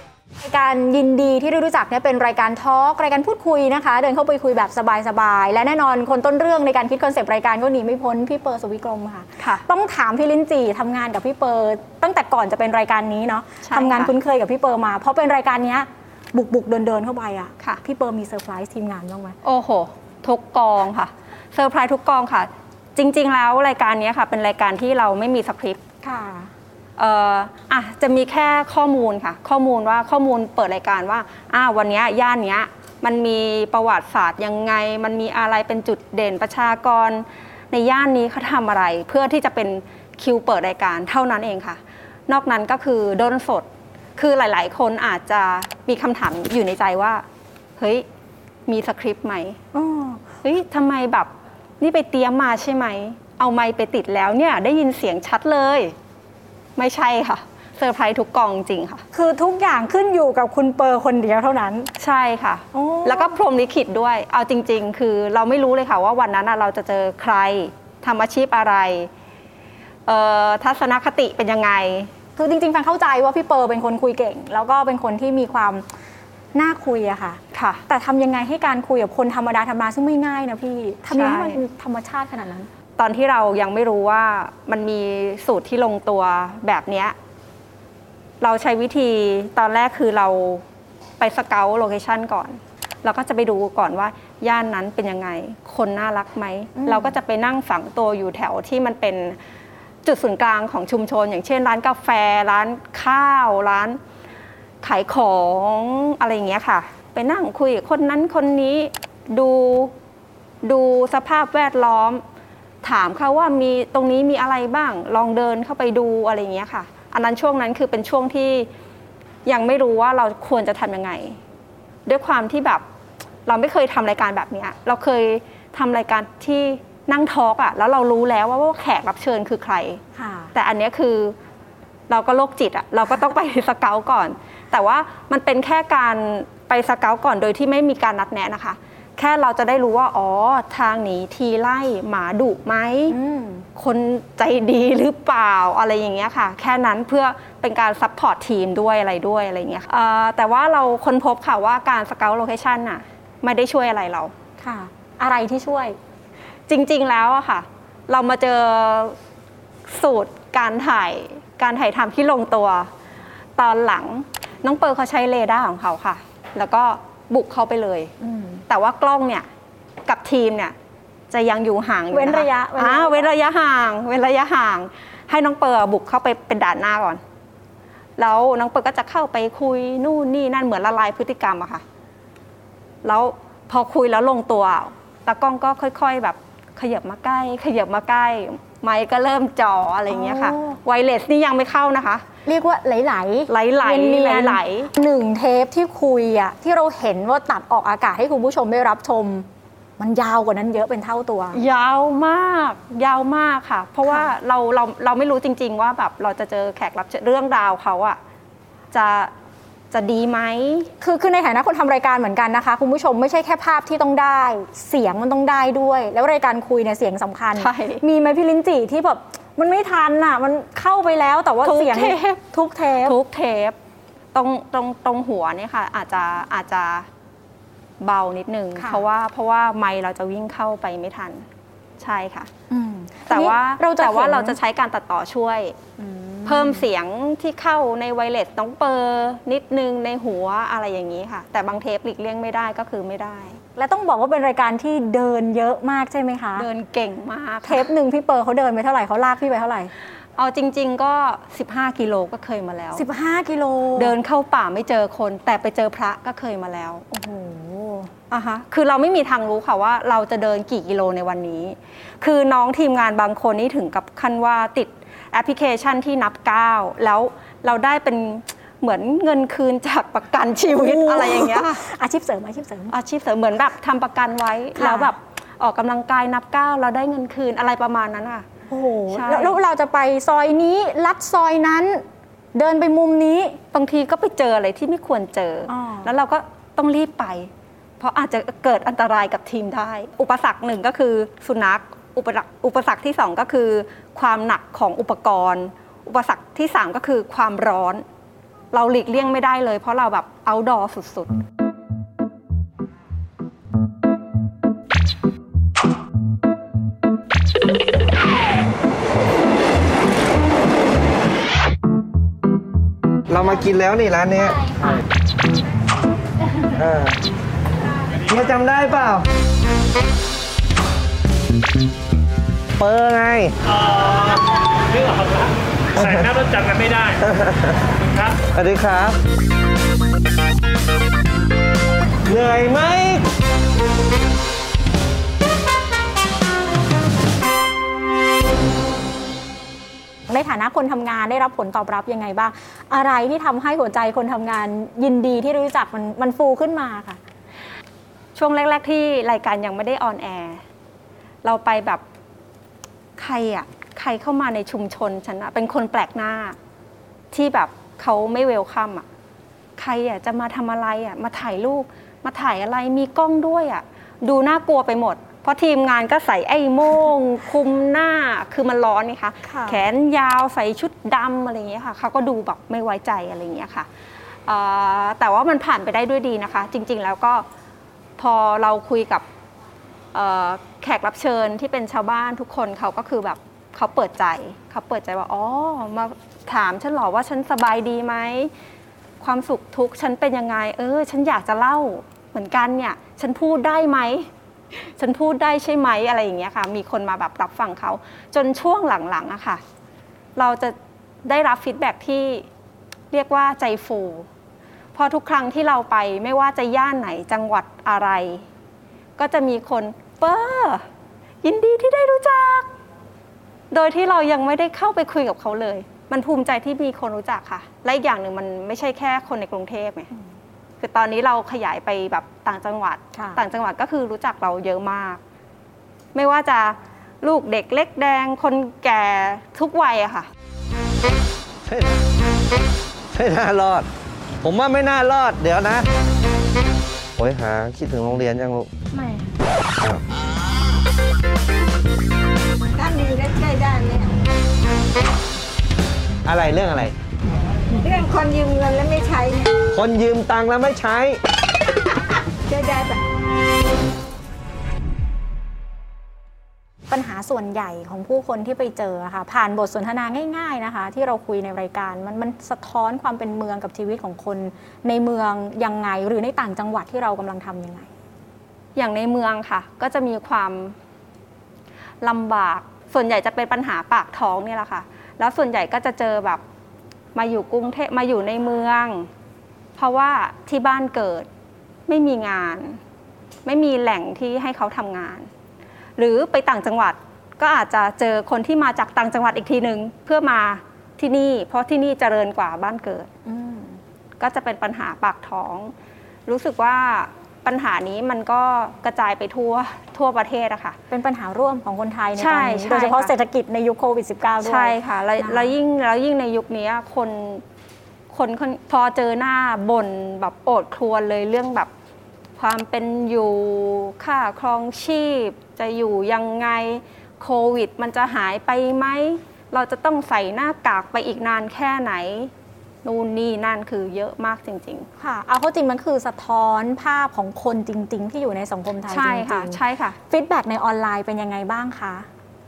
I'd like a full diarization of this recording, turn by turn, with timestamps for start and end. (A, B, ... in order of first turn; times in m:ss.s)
0:00.4-0:19.4 A
0:13.6-0:14.1 B
0:19.4-0:25.8 B
0:26.0-0:26.5 A
0:27.0-0:47.2 B
0:47.8-0:48.0 B
0:48.7-0:49.6 B
0:49.7-0:50.2 A
0:50.4-0:55.9 B
0:56.8-0:59.0 B
0:59.1-1:01.9 A
1:02.0-1:09.1 B
1:02.7-1:03.4 A
1:10.1-1:12.1 B
1:12.4-1:15.8 A
1:16.5-1:22.7 A
1:17.5-1:17.8 B
1:21.1-1:21.6 B
1:23.0-1:27.1 B
1:28.4-1:30.6 B
1:31.2-1:39.4 B
1:36.8-1:37.2 A
1:40.0-1:44.0 B
1:44.8-1:49.9 B
1:50.6-1:52.2 B
1:52.8-1:58.7 B
1:59.4-2:01.4 B
2:02.0-2:02.8 B
2:03.4-2:10.0 B
2:10.1-2:10.5 A
2:10.5-2:11.4 B
2:12.1-2:23.2 B
2:23.1-2:23.7 A
2:23.8-2:34.3 B
2:34.6-2:36.0 A
2:36.7-2:39.2 B
2:39.9-2:42.9 B
2:43.6-2:48.1 B
2:48.2-2:48.6 A
2:48.7-2:49.5 B
2:50.0-2:50.7 B
2:51.3-2:57.2 B
2:52.1-2:53.4 A
2:58.2-3:01.8 B
3:03.0-3:12.2 B
3:10.1-3:10.8 A
3:12.4-3:19.5 A
3:13.5-3:14.9 B
3:20.0-3:21.6 A
3:21.5-3:28.2 B
3:24.0-3:24.3 A
3:28.9-3:29.3 B
3:29.9-3:30.9 B
3:31.0-3:43.2 A
3:37.6-3:38.0 B
3:41.6-3:42.4 B
3:43.0-3:43.8 B
3:44.3-3:47.1 B
3:48.0-3:51.4 B
3:48.8-3:49.0 A
3:52.0-3:52.5 B
3:52.7-3:54.6 A
3:53.3-3:55.8 B
3:56.0-3:56.9 A
3:56.4-4:03.6 B
4:03.8-4:06.7 A
4:06.5-4:07.9 B
4:07.6-4:09.9 A
4:10.4-4:13.0 B
4:12.9-4:14.2 A
4:14.0-4:17.1 B
4:17.1-4:18.1 A
4:18.3-4:31.8 B
4:30.6-4:33.0 A
4:32.9-4:38.4 B
4:34.7-4:35.1 A
4:38.7-4:42.0 A
4:39.1-4:39.6 B
4:42.5-4:43.6 A
4:43.7-4:58.0 B
4:45.7-4:46.1 A
4:58.7-5:01.4 B
5:13.3-5:14.7 C
5:16.7-5:17.2 C
5:18.3-5:19.3 C
5:22.8-5:23.5 C
5:23.8-5:24.4 D
5:24.9-5:25.5 D
5:25.9-5:26.3 C
5:26.1-5:27.2 D
5:27.2-5:27.8 C
5:28.5-5:29.2 C
5:32.2-5:33.2 C
5:40.3-5:47.2 A
5:48.3-5:50.6 B
5:51.4-5:52.0 B
5:53.2-5:56.6 B
5:57.3-5:59.0 B
5:59.8-6:13.9 B
6:09.4-6:09.8 A
6:14.4-6:17.4 B
6:18.2-6:19.2 B
6:20.1-6:28.5 B
6:29.2-6:39.6 B
6:40.4-6:40.7 B
6:41.2-6:42.4 B
6:43.1-6:44.3 B
6:44.9-6:48.4 B
6:49.2-6:50.8 B
6:51.4-6:52.7 B
6:53.7-7:00.1 B
7:00.8-7:05.2 B
7:03.1-7:03.4 A
7:06.1-7:10.3 B
7:11.6-7:12.0 C
7:13.1-7:13.9 C
7:14.4-7:15.9 C
7:17.2-7:18.7 C
7:19.0-7:19.2 E
7:22.8-7:24.1 E
7:26.2-7:26.9 C
7:27.7-7:29.5 E
7:29.7-7:31.2 C
7:32.5-7:33.0 E
7:36.9-7:47.9 A
7:48.7-7:50.8 B
7:52.0-7:56.4 B
7:57.1-7:59.1 B
7:59.8-8:01.3 B
8:01.9-8:02.8 B
8:03.4-8:05.3 B
8:06.0-8:13.1 B
8:13.2-8:13.8 A
8:14.2-8:15.7 B
8:16.2-8:20.8 B
8:20.9-8:25.6 A
8:22.1-8:23.1 B
8:24.4-8:27.4 B
8:28.1-8:31.7 B
8:32.4-8:42.3 B
8:42.8-8:44.9 B
8:45.0-8:52.1 A
8:48.9-8:50.0 B